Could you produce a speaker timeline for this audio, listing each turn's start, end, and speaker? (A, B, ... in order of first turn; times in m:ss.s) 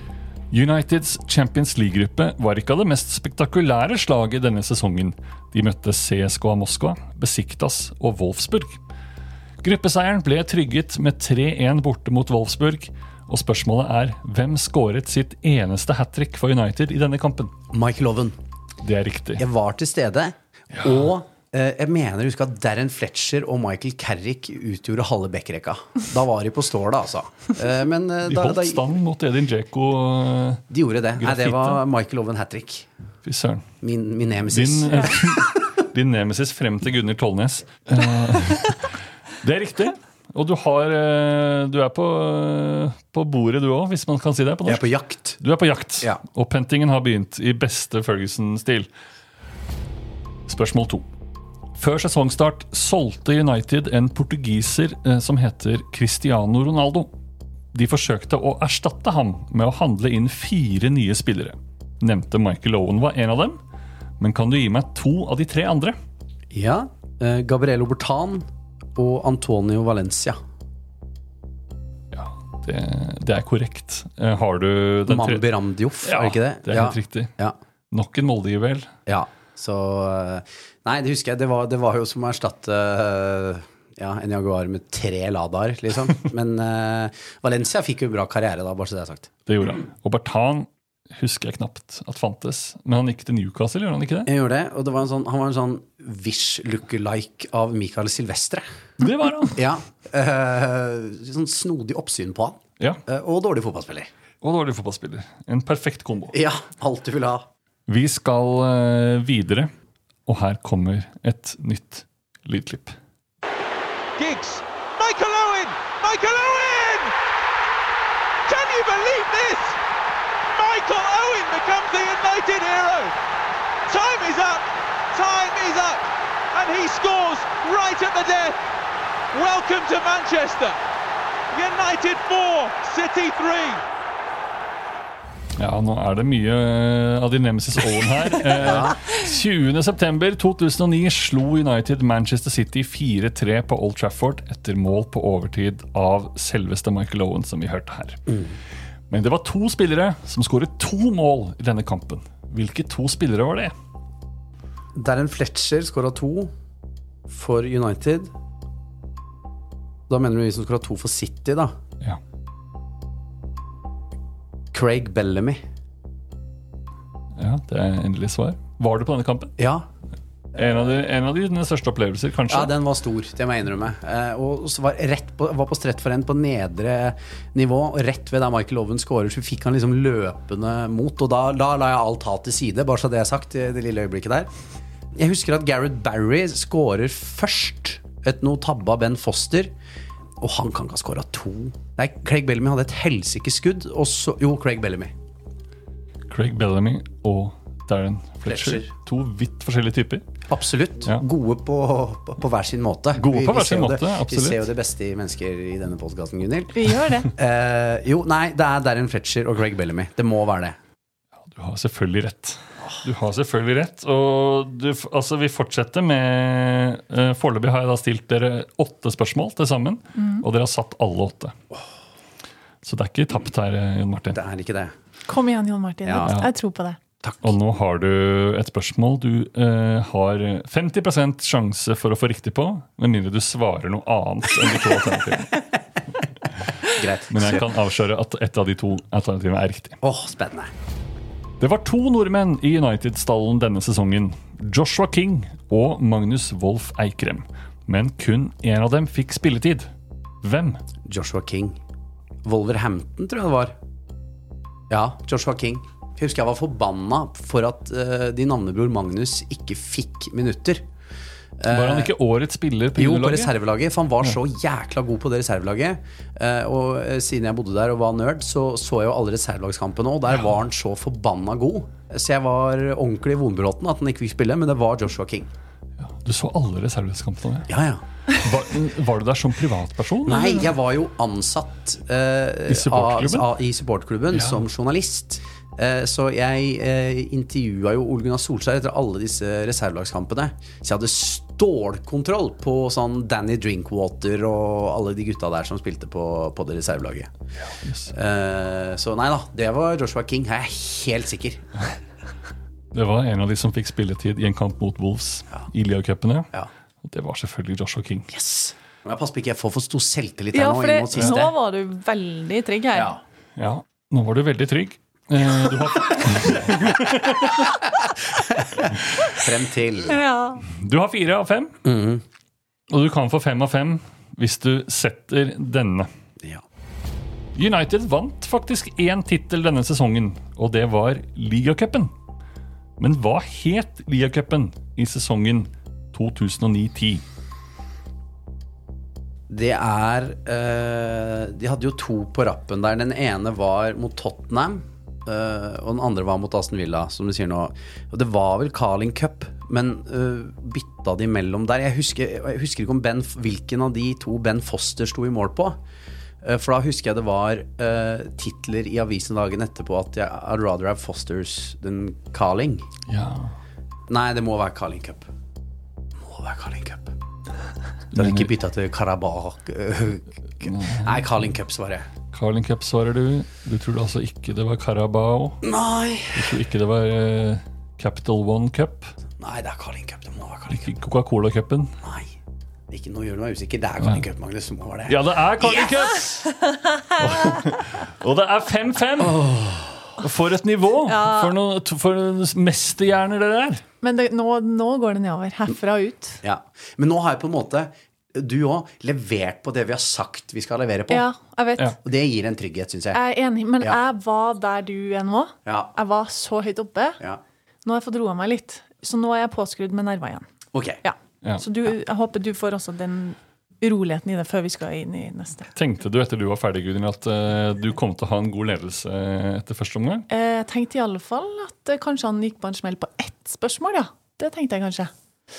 0:00.5-0:08.8 A
0:09.6-0:17.6 A
0:17.7-0:18.4 B
0:18.8-0:19.4 A
0:19.4-0:28.8 B
0:20.7-0:21.1 A
0:28.3-0:30.6 A
0:30.7-0:32.9 B
0:31.2-0:31.8 A
0:33.2-0:33.7 A
0:33.8-0:35.6 B
0:34.5-0:48.9 A
0:44.7-0:45.4 B
0:50.5-0:51.1 A
0:51.8-0:57.1 A
0:57.7-1:03.6 A
1:04.2-1:06.0 A
1:06.5-1:10.4 B
1:12.1-1:15.4 A
1:15.1-1:17.6 B
1:16.0-1:17.3 A
1:17.9-1:18.9 A
1:19.1-1:29.3 B
1:29.5-1:34.3 A
1:34.3-1:38.7 B
1:39.0-1:39.6 A
1:39.6-1:44.1 B
1:44.4-1:46.4 A
1:46.3-1:47.5 B
1:47.9-1:49.7 A
1:50.3-1:53.0 A
1:54.2-1:57.1 C
1:58.5-1:59.8 C
2:00.5-2:03.2 C
2:03.9-2:08.6 C
2:09.3-2:10.8 C
2:11.5-2:13.8 C
2:15.6-2:28.2 A
2:18.6-2:19.0 B
2:28.3-2:28.6 B
2:29.1-2:33.7 A
2:35.0-2:36.5 B
2:37.3-2:38.3 B
2:40.1-2:41.7 B
2:44.7-2:45.6 B
2:47.4-2:49.6 A
2:49.6-2:49.9 B
2:50.6-2:52.8 A
2:52.5-3:04.5 B
3:05.2-3:09.7 B
3:10.4-3:15.1 B
3:16.3-3:20.2 A
3:18.5-3:18.9 B
3:20.5-3:26.8 B
3:23.2-3:24.7 A
3:26.8-3:27.3 D
3:27.3-3:30.8 B
3:31.5-3:41.6 A
3:40.2-3:40.4 D
3:42.8-3:44.4 A
3:44.3-3:44.9 B
3:45.3-3:47.0 D
3:46.0-3:46.3 B
3:47.2-3:47.5 B
3:47.4-3:55.6 A
3:56.8-3:57.6 B
3:57.3-4:00.0 A
4:00.0-4:00.7 B
4:01.6-4:09.9 A
4:10.4-4:10.8 A
4:11.1-4:11.8 B
4:12.4-4:13.8 B
4:14.9-4:20.9 B
4:21.6-4:22.1 B
4:21.7-4:23.5 A
4:23.0-4:35.5 B
4:36.0-4:37.7 A
4:37.7-4:38.0 B
4:38.3-4:40.7 A
4:40.2-4:57.3 B
4:42.7-4:43.5 A
4:57.8-4:58.1 A
4:58.1-5:01.7 B
5:02.9-5:06.5 A
5:07.0-5:08.3 A
5:08.3-5:11.5 B
5:10.5-5:13.2 D
5:11.2-5:11.4 A
5:12.9-5:13.2 B
5:13.6-5:17.9 A
5:18.6-5:20.2 B
5:20.1-5:20.6 D
5:20.7-5:21.8 A
5:21.8-5:22.2 B
5:22.9-5:26.1 A
5:27.6-5:32.1 A
5:33.0-5:37.2 A
5:39.5-5:55.8 B
5:56.4-6:02.9 B
6:03.1-6:03.5 A
6:04.1-6:05.3 B
6:06.2-6:07.2 B
6:08.1-6:08.5 A
6:08.2-6:12.1 B
6:10.6-6:11.4 A
6:12.3-6:15.6 A
6:15.6-6:16.6 B
6:16.4-6:19.1 A
6:19.4-6:20.9 B
6:20.7-6:21.9 A
6:22.0-6:22.3 B
6:22.9-6:25.9 B
6:25.1-6:26.5 A
6:27.2-6:29.5 A
6:29.2-6:30.0 B
6:30.2-6:33.8 A
6:31.1-6:31.5 D
6:34.0-6:36.4 D
6:36.4-6:41.3 B
6:41.1-6:42.0 D
6:42.0-6:43.2 B
6:43.1-6:47.2 D
6:45.7-6:45.9 B
6:47.8-6:50.4 D
6:50.7-6:51.0 B
6:51.0-6:55.7 D
6:55.8-7:00.3 A
7:00.3-7:05.1 D